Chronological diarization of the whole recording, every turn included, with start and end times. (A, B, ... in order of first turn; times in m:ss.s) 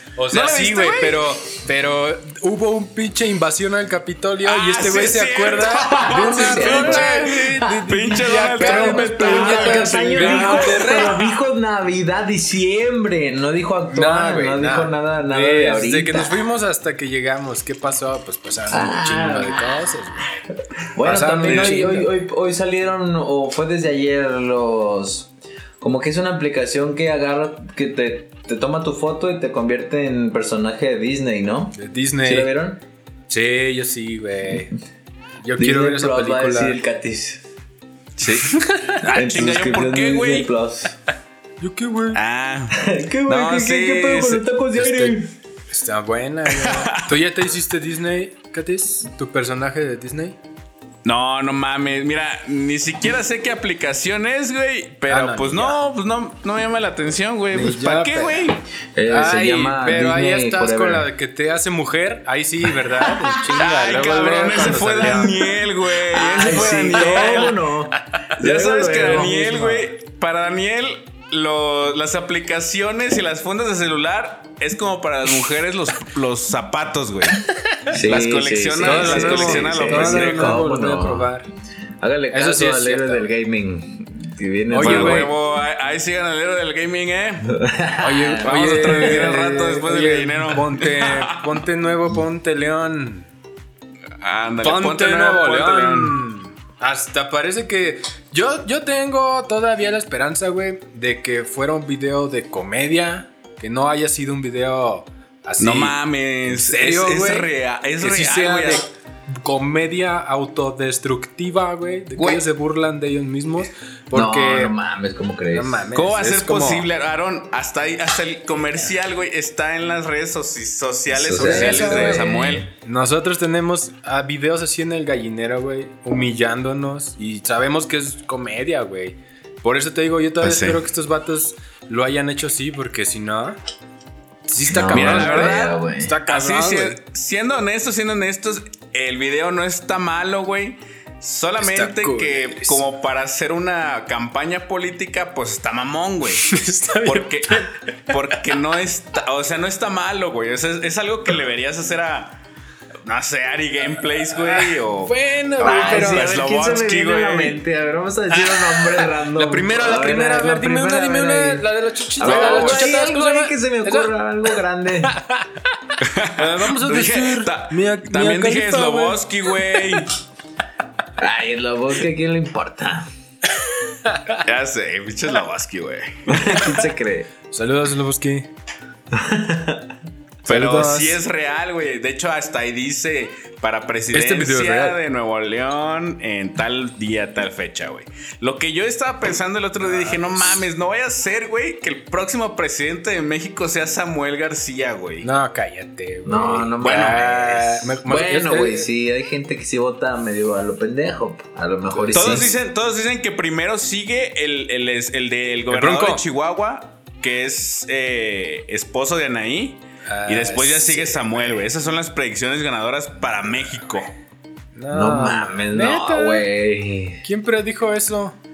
0:00.2-0:11.2 A
0:00.3-0:01.2 B
0:04.4-0:11.3 B
0:06.0-0:16.4 C
0:13.9-0:20.2 A
0:18.7-0:19.7 C
0:20.9-0:32.8 C
0:21.0-0:22.1 A
0:21.4-0:21.9 B
0:31.8-0:32.5 A
0:33.3-0:34.7 A
0:35.4-0:36.8 A
0:35.6-0:37.4 C
0:38.2-0:38.6 A
0:38.3-0:40.5 B
0:39.0-0:41.0 C
0:41.6-0:42.2 A
0:42.1-0:44.4 B
0:42.7-0:45.3 C
0:44.8-0:45.2 A
0:45.7-0:50.4 A
0:46.6-0:47.1 B
0:51.0-0:58.6 B
0:55.1-0:55.8 A
0:57.5-0:58.5 A
0:58.9-1:01.1 C
0:59.1-1:05.6 A
1:03.4-1:07.6 B
1:06.1-1:09.7 C
1:06.7-1:07.5 A
1:08.4-1:20.6 B
1:08.9-1:09.8 A
1:17.9-1:21.3 C
1:18.8-1:21.5 A
1:22.0-1:25.3 C
1:22.3-1:23.3 A
1:24.7-1:25.3 A
1:24.8-1:27.5 B
1:27.5-1:29.3 C
1:28.0-1:33.3 A
1:28.4-1:31.5 B
1:34.2-1:36.2 B
1:34.6-1:54.7 A
1:45.6-1:48.8 B
1:52.2-1:52.4 B
1:54.1-1:55.9 C
1:55.5-1:56.9 A
1:55.9-2:02.7 B
2:01.1-2:02.7 C
2:01.3-2:02.3 A
2:02.8-2:13.6 A
2:10.4-2:10.8 B
2:14.5-2:17.0 A
2:14.7-2:16.2 C
2:14.9-2:32.4 B
2:21.6-2:22.9 A
2:26.4-2:28.2 A
2:33.0-2:37.6 B
2:34.3-2:36.3 A
2:35.6-2:41.6 C
2:38.3-2:44.5 A
2:42.2-2:45.2 C
2:42.2-2:42.9 B
2:45.1-2:50.0 A
2:46.0-2:50.1 B
2:51.2-2:53.1 C
2:54.0-2:54.4 A
2:54.3-2:56.4 B
2:56.3-2:57.3 C
2:57.5-2:58.5 A
2:59.1-2:59.9 C
3:00.4-3:15.3 B
3:00.5-3:01.2 A
3:04.1-3:05.0 A
3:09.8-3:10.7 A
3:15.2-3:18.9 A
3:16.2-3:22.5 C
3:16.8-3:17.7 B
3:21.9-3:22.5 A
3:22.1-3:34.1 B
3:25.7-3:26.2 A
3:30.1-3:31.3 A
3:34.8-3:36.5 A
3:34.9-3:37.2 C
3:37.2-3:38.4 A